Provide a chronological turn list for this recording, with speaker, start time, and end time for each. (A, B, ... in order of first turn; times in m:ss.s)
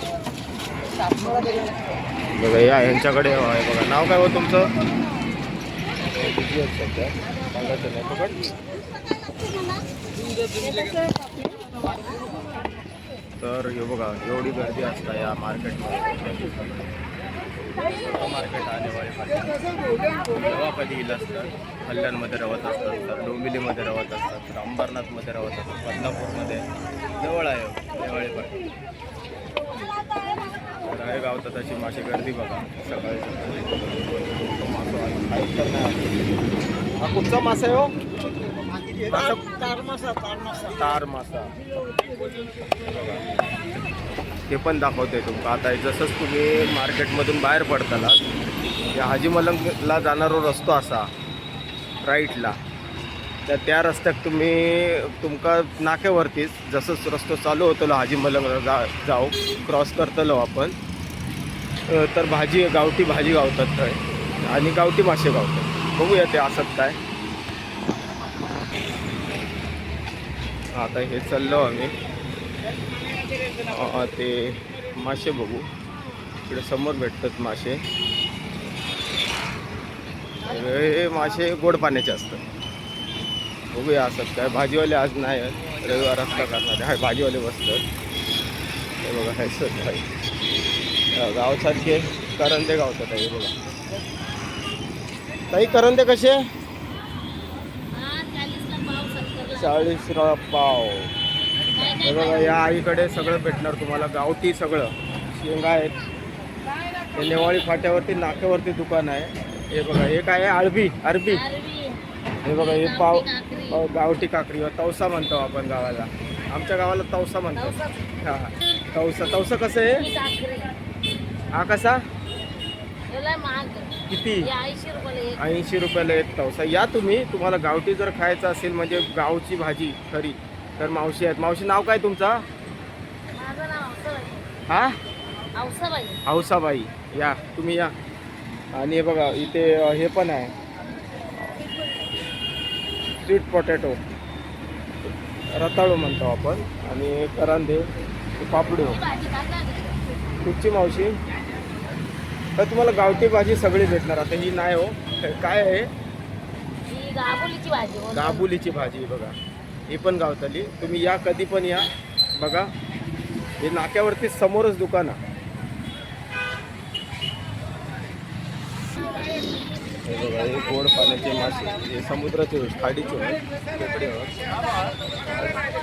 0:02.3-0:04.7 A
0:06.1-0:08.4 A
0:13.4-0:16.9 A
0:17.8-0:19.6 A
0:20.2-0:26.6 A
0:27.2-0:28.6 A
0:30.8-0:36.2 A
0:37.0-0:37.9 A
0:39.1-0:39.7 A
0:40.4-0:41.5 A
0:42.8-0:43.2 A
0:44.5-0:48.2 A
0:48.9-0:51.1 A
0:52.0-0:52.5 A
0:53.5-1:00.7 A
1:01.9-1:07.0 A
1:10.7-1:11.9 A
1:13.6-1:15.6 A
1:16.5-1:17.8 A
1:20.4-1:22.4 A
1:23.7-1:27.8 A
1:29.0-1:30.0 A
1:31.1-1:33.5 A
1:35.5-1:36.4 A
1:37.9-1:39.9 B
1:39.5-1:41.1 A
1:41.7-1:42.6 B
1:42.0-1:45.9 A
1:47.2-1:51.4 A
1:51.3-1:52.0 B
1:52.4-2:00.1 A
1:52.5-1:53.8 B
1:57.6-1:58.0 B
2:00.0-2:00.7 B
2:01.5-2:02.0 A
2:03.1-2:05.4 B
2:04.1-2:04.5 A
2:05.4-2:12.4 A
2:13.3-2:14.5 B
2:14.7-2:14.9 A
2:15.5-2:16.2 B
2:16.2-2:17.9 A
2:18.8-2:20.5 A
2:23.2-2:24.0 A
2:25.5-2:27.8 A
2:28.4-2:29.0 A
2:28.9-2:30.0 B
2:30.4-2:31.1 A
2:32.6-2:35.9 A
2:36.9-2:38.4 B
2:38.1-2:39.3 A
2:39.9-2:41.9 A
2:42.4-2:42.7 A
2:43.6-2:45.2 A
2:50.0-2:54.4 A
2:55.2-2:55.6 A